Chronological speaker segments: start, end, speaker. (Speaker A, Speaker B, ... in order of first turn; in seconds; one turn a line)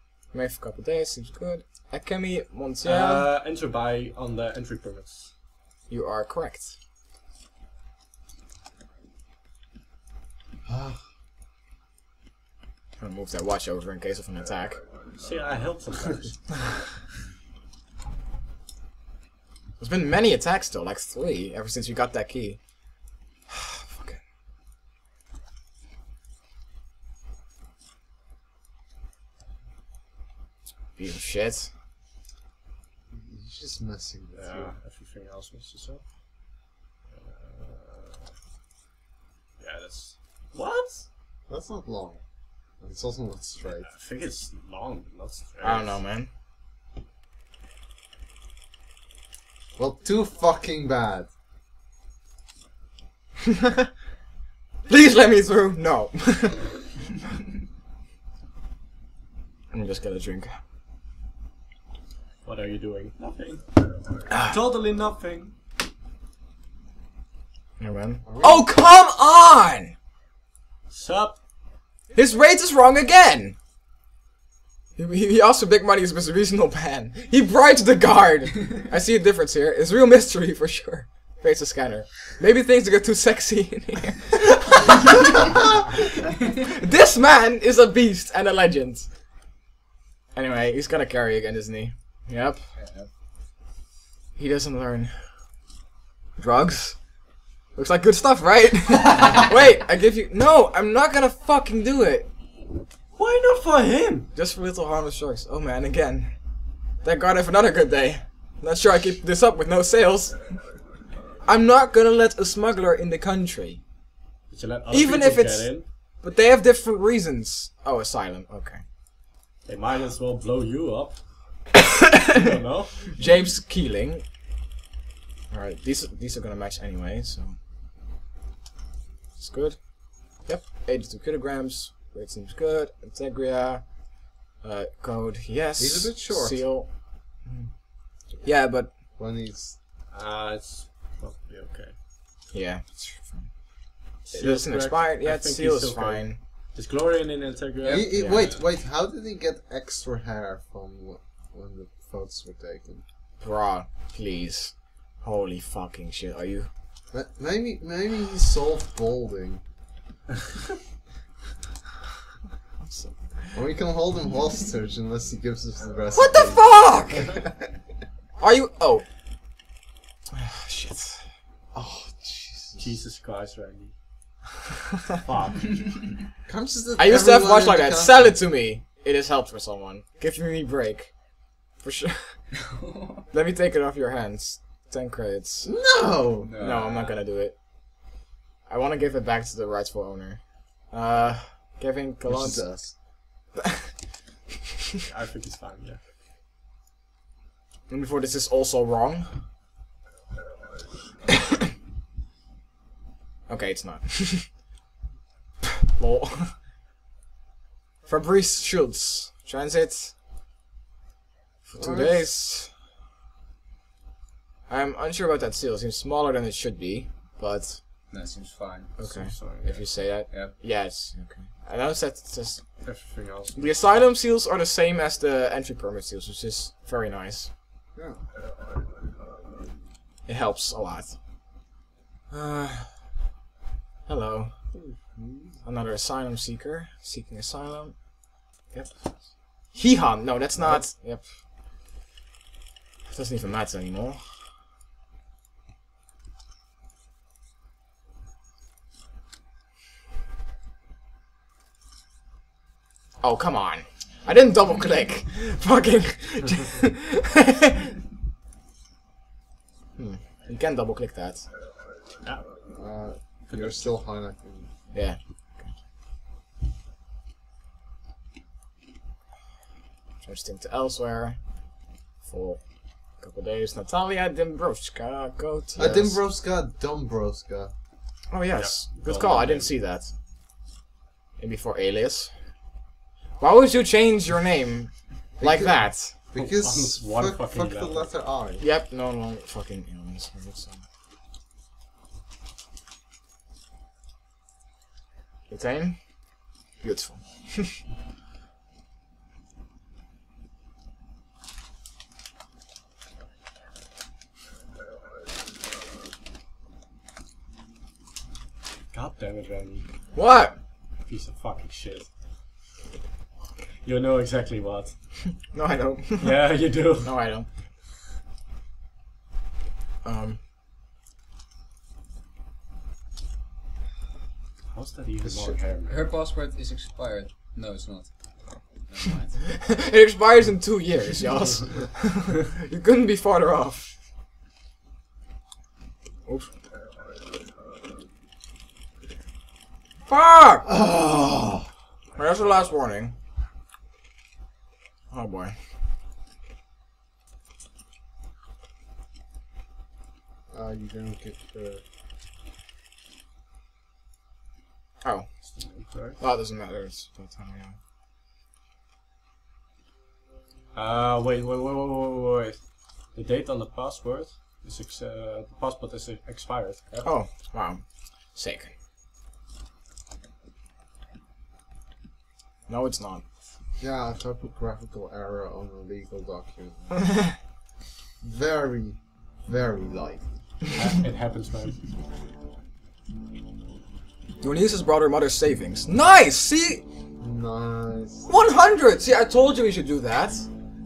Speaker A: 0.3-3.3
Speaker B: 2.8-5.3
Speaker A: 5.9-6.7
Speaker C: 10.7-11.0
Speaker A: 13.0-14.8
Speaker B: 15.2-16.6
Speaker A: 19.8-22.9
Speaker A: 23.5-24.2
Speaker A: 30.9-31.7
Speaker C: 33.1-34.7
Speaker B: 34.4-36.0
Speaker B: 37.1-38.3
Speaker B: 39.6-41.0
Speaker C: 41.5-42.2
Speaker C: 42.8-43.9
Speaker B: 43.8-46.0
Speaker A: 45.6-46.3
Speaker C: 49.8-51.3
Speaker A: 54.9-56.7
Speaker A: 59.7-60.5
Speaker B: 62.4-63.7
Speaker A: 64.3-64.5
Speaker B: 64.4-65.5
Speaker A: 67.8-69.9
Speaker C: 68.2-68.7
Speaker B: 70.9-71.4
Speaker A: 72.1-73.5
Speaker A: 75.0-89.1
Speaker A: 90.3-92.7
Speaker D: 92.8-93.1
Speaker A: 94.3-95.3
Speaker A: 96.4-97.0
Speaker A: 97.7-102.3
Speaker B: 103.1-104.3
Speaker A: 104.3-106.3
Speaker A: 107.0-110.7
Speaker A: 111.4-113.8
Speaker B: 114.5-115.8
Speaker A: 114.9-118.8
Speaker B: 119.7-123.2
Speaker A: 123.2-124.2
Speaker A: 125.5-127.5
Speaker A: 129.4-137.7
Speaker C: 135.8-136.6
Speaker A: 138.4-138.9
Speaker C: 139.2-139.8
Speaker B: 140.1-141.9
Speaker A: 142.5-143.7
Speaker B: 144.2-148.6
Speaker A: 144.3-146.4
Speaker D: 147.8-148.1
Speaker C: 147.8-153.0
Speaker A: 148.1-148.5
Speaker A: 153.4-156.7
Speaker C: 157.1-159.6
Speaker A: 162.8-163.6
Speaker C: 163.5-166.8
Speaker A: 166.1-167.4
Speaker C: 167.3-167.7
Speaker A: 168.4-169.0
Speaker A: 170.3-171.2
Speaker C: 171.7-172.9
Speaker B: 172.8-173.9
Speaker B: 175.2-176.0
Speaker C: 176.4-178.4
Speaker A: 177.0-181.2
Speaker A: 181.7-182.5
Speaker D: 182.6-183.2
Speaker A: 183.3-185.7
Speaker C: 185.6-186.5
Speaker D: 186.4-187.2
Speaker A: 186.6-187.6
Speaker A: 188.7-193.0
Speaker C: 192.2-192.9
Speaker B: 195.0-196.0
Speaker A: 197.9-199.3
Speaker A: 203.5-204.7
Speaker A: 205.9-206.5
Speaker A: 208.1-210.2
Speaker A: 211.7-212.7
Speaker C: 211.8-212.2
Speaker A: 214.7-217.8
Speaker D: 218.1-218.9
Speaker A: 219.0-222.9
Speaker B: 219.0-220.0
Speaker B: 222.8-223.6
Speaker A: 223.5-227.5
Speaker C: 227.9-228.2
Speaker A: 230.2-231.2
Speaker A: 232.3-233.1
Speaker A: 234.1-234.5
Speaker C: 234.7-235.6
Speaker A: 235.6-238.1
Speaker A: 238.7-241.3
Speaker A: 243.1-244.2
Speaker A: 253.2-257.9
Speaker A: 259.9-261.4
Speaker C: 262.7-264.7
Speaker B: 263.5-263.9
Speaker A: 264.9-265.7
Speaker A: 270.2-271.4
Speaker A: 272.2-276.2
Speaker C: 275.8-277.7
Speaker A: 278.3-280.1
Speaker B: 278.6-279.7
Speaker A: 281.4-282.3
Speaker A: 283.4-286.1
Speaker C: 285.4-288.6
Speaker B: 286.3-288.1
Speaker A: 288.6-290.8
Speaker A: 295.5-297.8
Speaker B: 308.9-309.9
Speaker A: 310.1-310.6
Speaker B: 311.0-312.1
Speaker B: 313.8-315.0
Speaker A: 315.5-317.5
Speaker B: 316.2-317.2
Speaker A: 320.0-320.4
Speaker B: 324.7-326.1
Speaker D: 325.9-329.6
Speaker A: 329.6-333.9
Speaker A: 340.1-340.7
Speaker C: 340.6-341.7
Speaker A: 342.1-343.1
Speaker A: 345.1-345.5
Speaker C: 350.5-351.8
Speaker A: 355.0-355.3
Speaker B: 355.5-356.2
Speaker A: 356.1-357.8
Speaker B: 360.7-362.6
Speaker B: 363.1-367.1
Speaker A: 367.0-368.7
Speaker A: 372.7-373.3
Speaker C: 373.8-377.1
Speaker C: 378.2-380.2
Speaker B: 380.7-381.9
Speaker A: 384.4-386.8
Speaker C: 387.2-388.3
Speaker A: 388.2-390.5